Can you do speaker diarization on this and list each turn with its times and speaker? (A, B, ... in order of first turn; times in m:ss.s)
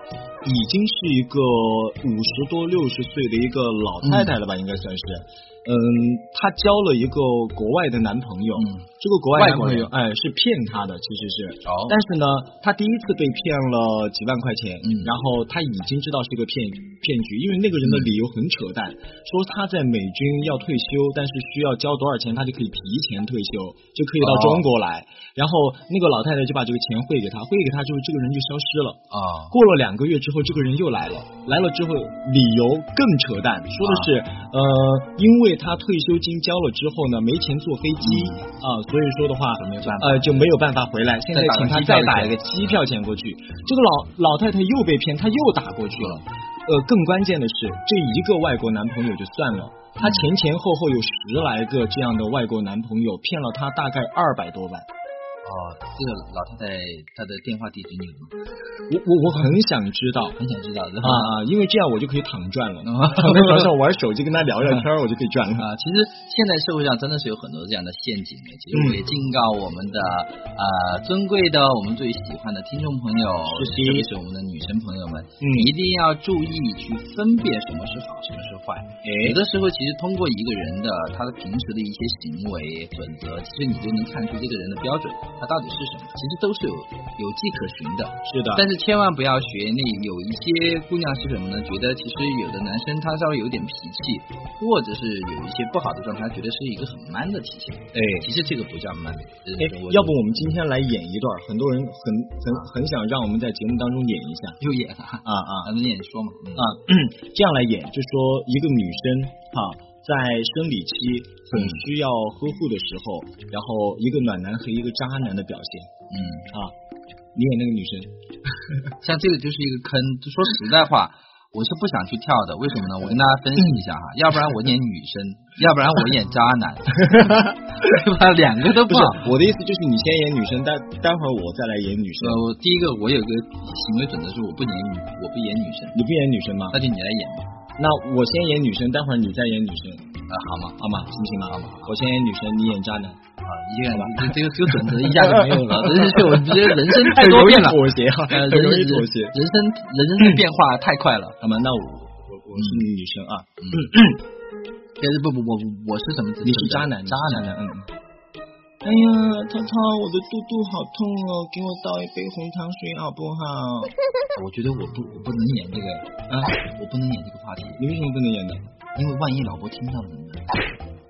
0:00.4-0:29.0 A
0:04.0-0:04.3 B
0:08.6-0:09.9 B
0:11.6-0:12.0 B
0:14.8-0:15.1 B
0:17.8-0:18.1 B
0:24.2-0:24.6 B
0:29.1-0:29.5 B
0:29.5-0:54.9 A
0:33.8-0:34.1 B
0:38.0-0:38.4 B
0:39.6-0:40.5 B
0:41.3-0:42.4 B
0:46.0-0:46.2 B
0:50.0-0:50.3 B
0:55.4-0:58.4 B
0:58.9-1:00.4 A
1:00.4-1:01.3 B
1:01.0-1:05.7 A
1:02.8-1:03.7 B
1:05.6-1:40.2 B
1:08.7-1:09.0 A
1:13.5-1:14.1 A
1:15.4-1:15.7 A
1:19.0-1:19.4 A
1:28.3-1:28.6 A
1:37.9-1:38.3 A
1:39.6-1:44.6 A
1:44.6-1:46.7 B
1:45.2-1:45.7 A
1:46.6-1:55.9 A
1:51.5-1:51.8 B
1:56.1-1:56.5 B
1:56.5-1:56.7 A
1:57.4-1:58.1 A
1:59.0-2:09.3 B
2:07.1-2:07.6 A
2:08.8-2:12.4 A
2:12.2-2:16.0 B
2:15.9-2:16.8 A
2:16.7-2:17.5 B
2:17.8-2:20.1 A
2:20.3-2:20.9 B
2:20.8-2:23.2 A
2:21.4-2:22.0 B
2:23.4-2:31.4 B
2:23.9-2:29.4 A
2:31.4-2:34.2 A
2:32.6-2:32.8 B
2:35.0-2:37.5 B
2:36.4-2:37.9 A
2:38.8-2:44.0 A
2:44.4-2:47.8 B
2:46.3-2:46.5 A
2:47.8-2:48.6 A
2:49.0-2:50.5 B